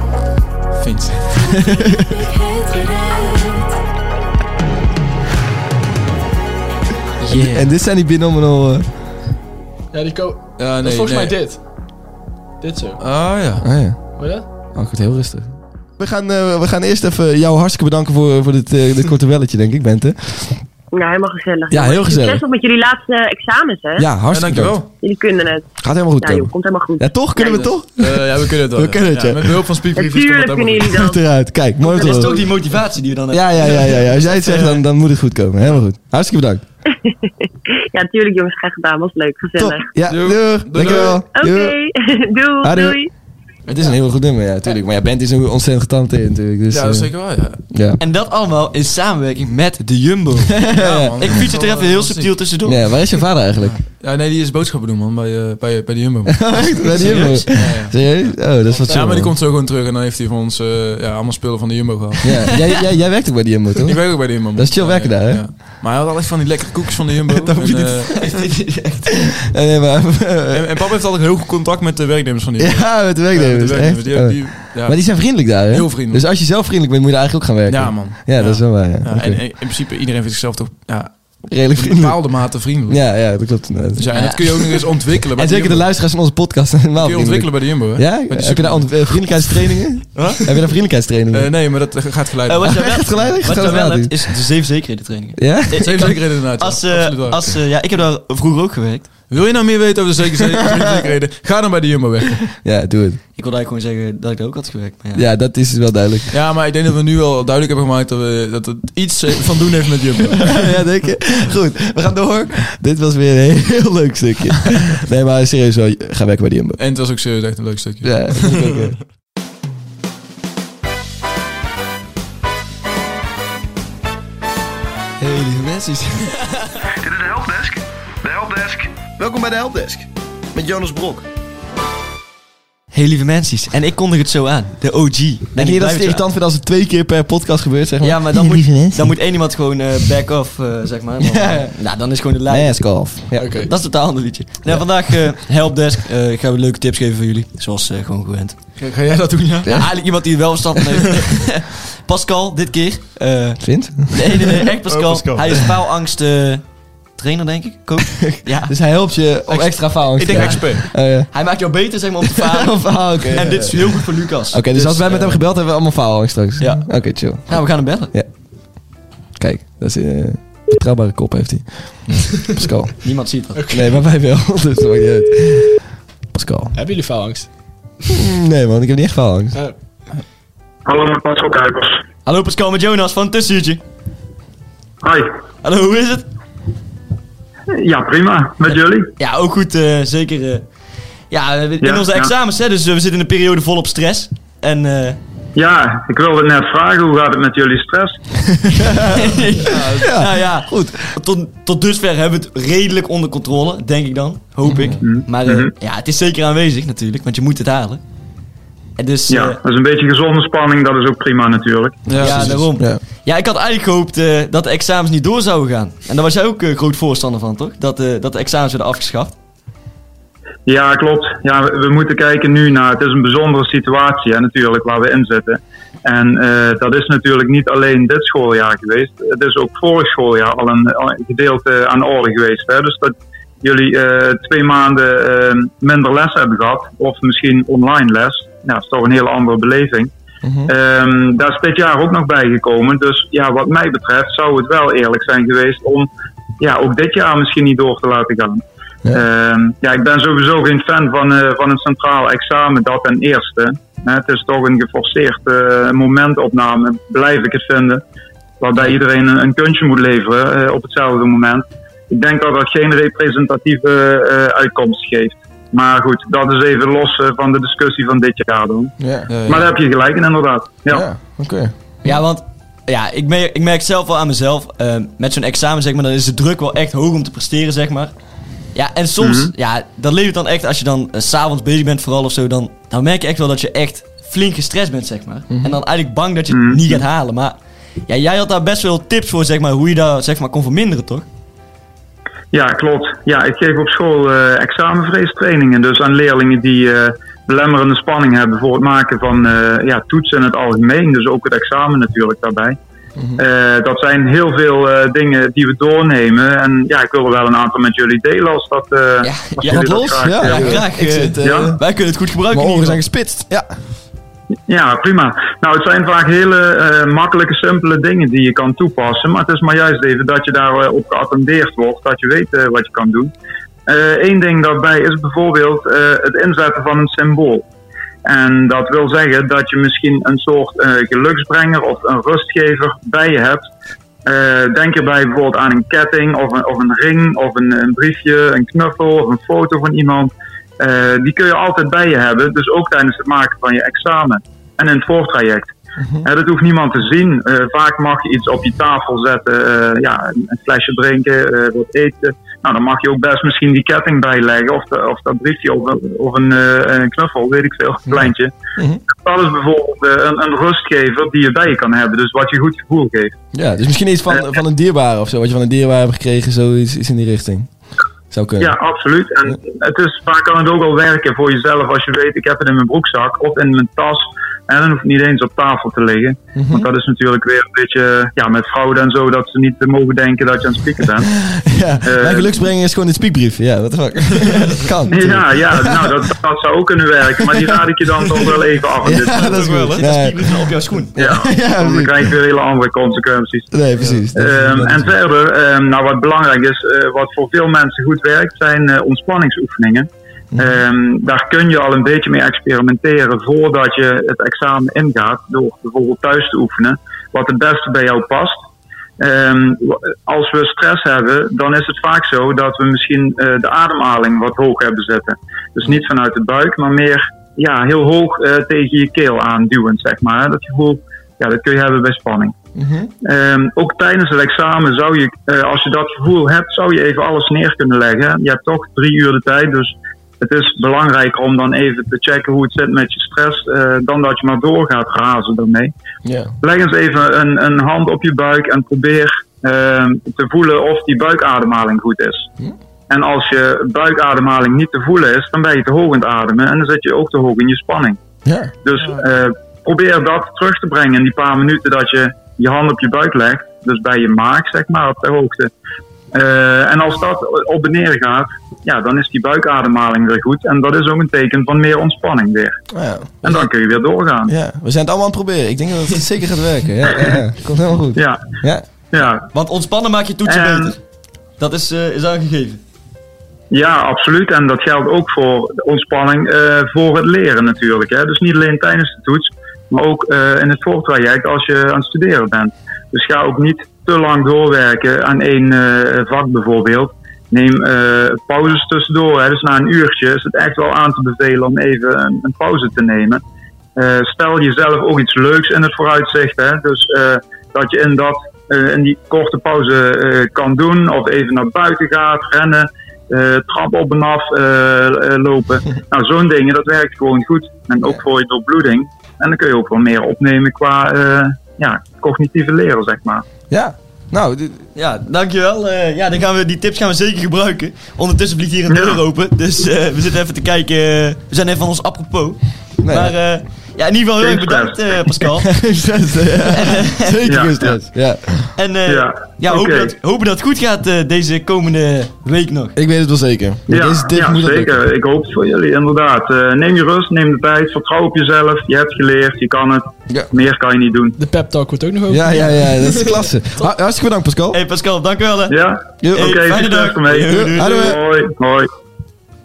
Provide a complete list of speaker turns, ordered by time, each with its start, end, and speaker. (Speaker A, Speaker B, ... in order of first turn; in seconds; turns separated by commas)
Speaker A: 0.8-1.6, Speaker B: 1.5-2.3, Speaker C: 7.2-7.7, Speaker B: 7.4-8.9, Speaker D: 9.9-11.6, Speaker A: 10.6-11.4, Speaker D: 12.6-13.0, Speaker A: 13.0-13.8, Speaker B: 13.6-20.6, Speaker D: 14.2-14.5, Speaker E: 20.9-24.1, Speaker B: 21.7-22.4, Speaker B: 24.0-24.8, Speaker A: 24.3-24.9, Speaker E: 25.0-27.7, Speaker B: 25.8-29.6, Speaker A: 27.4-31.0, Speaker E: 29.9-31.2, Speaker B: 30.9-32.4, Speaker E: 31.8-32.4, Speaker C: 32.0-34.8, Speaker B: 33.3-36.6, Speaker E: 37.9-39.9, Speaker B: 39.6-41.8, Speaker A: 40.1-41.2, Speaker E: 41.3-43.1, Speaker B: 42.6-43.0, Speaker B: 43.7-47.1, Speaker A: 46.7-47.6, Speaker B: 47.7-48.0, Speaker C: 48.0-53.0, Speaker B: 50.6-51.4, Speaker A: 50.8-52.3, Speaker B: 52.6-53.8, Speaker A: 53.6-62.6, Speaker B: 56.3-59.4, Speaker C: 57.0-57.8, Speaker B: 62.2-65.5, Speaker A: 63.9-68.2, Speaker B: 67.3-68.1, Speaker C: 68.1-69.3, Speaker B: 69.5-70.7, Speaker A: 70.5-76.2, Speaker B: 72.6-79.4, Speaker A: 77.7-83.1, Speaker B: 81.5-84.8, Speaker A: 84.0-85.9, Speaker C: 84.1-84.8, Speaker B: 85.3-91.5, Speaker A: 87.0-89.7, Speaker A: 91.3-93.3, Speaker C: 92.5-99.2, Speaker B: 92.6-94.3, Speaker B: 95.4-96.1, Speaker A: 95.7-97.6, Speaker A: 99.3-102.5, Speaker B: 100.6-101.1, Speaker B: 102.6-103.2, Speaker C: 103.4-105.3, Speaker B: 105.2-106.3, Speaker A: 106.3-110.7, Speaker B: 110.4-116.8, Speaker A: 116.8-118.8, Speaker B: 118.0-119.0, Speaker B: 125.2-126.0, Speaker C: 125.2-126.7, Speaker B: 126.9-131.3, Speaker C: 132.9-136.2, Speaker B: 135.6-139.1, Speaker C: 138.0-148.6, Speaker B: 141.2-141.7, Speaker B: 142.5-143.6, Speaker D: 143.4-143.7, Speaker A: 148.8-149.7, Speaker B: 149.6-149.9, Speaker C: 149.7-156.6, Speaker B: 153.6-154.4, Speaker A: 154.9-155.6, Speaker C: 157.2-158.8, Speaker B: 158.2-161.3, Speaker A: 159.5-160.8, Speaker C: 160.2-165.4, Speaker B: 162.3-163.9, Speaker B: 164.5-168.3, Speaker C: 166.6-168.1, Speaker B: 169.4-173.0, Speaker C: 173.0-173.6, Speaker D: 173.5-174.0, Speaker B: 173.7-175.8, Speaker B: 176.3-176.8, Speaker D: 176.7-177.5, Speaker B: 178.1-179.6, Speaker F: 180.9-182.0, Speaker C: 182.3-183.8, Speaker F: 185.0-185.3, Speaker C: 185.6-186.3, Speaker F: 187.8-189.1, Speaker C: 189.2-190.6, Speaker C: 191.3-195.2, Speaker F: 191.8-192.3, Speaker F: 195.6-198.2, Speaker B: 198.7-199.2, Speaker C: 199.0-208.0, Speaker A: 199.7-200.2, Speaker B: 199.8-201.2, Speaker B: 204.7-205.0, Speaker F: 205.0-205.7, Speaker C: 209.0-209.6, Speaker F: 209.3-212.2, Speaker A: 212.1-212.7, Speaker C: 212.2-219.3, Speaker B: 212.2-213.0, Speaker F: 220.7-240.1, Speaker B: 240.4-240.7, Speaker F: 240.7-246.1, Speaker F: 246.6-258.0, Speaker F: 258.6-268.9, Speaker B: 269.0-269.3, Speaker A: 269.3-269.7, Speaker F: 269.4-271.1, Speaker B: 270.9-271.7, Speaker C: 272.0-278.1, Speaker C: 278.7-287.6, Speaker F: 279.2-279.5, Speaker F: 286.5-287.0, Speaker C: 288.1-291.3, Speaker F: 292.5-302.8, Speaker F: 303.4-310.8, Speaker C: 309.2-313.0, Speaker B: 310.2-311.8, Speaker F: 311.4-311.8, Speaker B: 312.5-313.7, Speaker F: 314.7-323.3, Speaker F: 323.9-327.6, Speaker F: 328.3-333.7, Speaker F: 334.3-345.7, Speaker F: 346.2-358.5, Speaker B: 358.1-359.0, Speaker F: 359.1-363.3, Speaker B: 363.5-367.7, Speaker B: 368.3-368.7, Speaker F: 368.6-381.3, Speaker B: 376.6-376.9, Speaker B: 381.4-386.3, Speaker F: 382.0-382.5, Speaker F: 385.1-389.5, Speaker B: 389.0-392.3, Speaker C: 389.3-391.2, Speaker A: 389.4-390.0, Speaker F: 391.2-393.8, Speaker B: 393.7-395.1, Speaker A: 394.0-394.2, Speaker F: 394.3-408.6, Speaker B: 400.5-400.8, Speaker F: 409.2-422.5, Speaker B: 422.8-423.1, Speaker F: 423.2-435.9, Speaker B: 436.2-436.5, Speaker F: 436.6-442.5, Speaker F: 443.1-448.2, Speaker B: 448.4-448.7, Speaker F: 448.8-455.7, Speaker F: 456.3-462.8, Speaker B: 462.9-463.7, Speaker F: 463.4-464.5, Speaker B: 464.5-468.9, Speaker F: 468.1-468.4, Speaker F: 469.1-469.5, Speaker C: 469.5-471.0, Speaker F: 470.5-470.9, Speaker C: 471.6-472.8, Speaker F: 473.7-493.4, Speaker F: 494.0-513.5, Speaker B: 513.7-514.9, Speaker C: 515.0-525.7, Speaker F: 518.9-519.2, Speaker B: 523.0-523.4, Speaker F: 524.4-525.4, Speaker B: 525.6-528.7, Speaker C: 526.7-527.5, Speaker F: 527.5-527.9, Speaker C: 528.8-533.0, Speaker F: 529.1-530.1, Speaker B: 533.0-535.0, Speaker F: 533.9-541.4, Speaker D: 541.4-543.9, Speaker B: 542.3-544.8, Speaker C: 544.7-545.8, Speaker F: 545.7-548.9, Speaker B: 546.2-546.6, Speaker C: 546.3-548.2, Speaker B: 547.5-548.2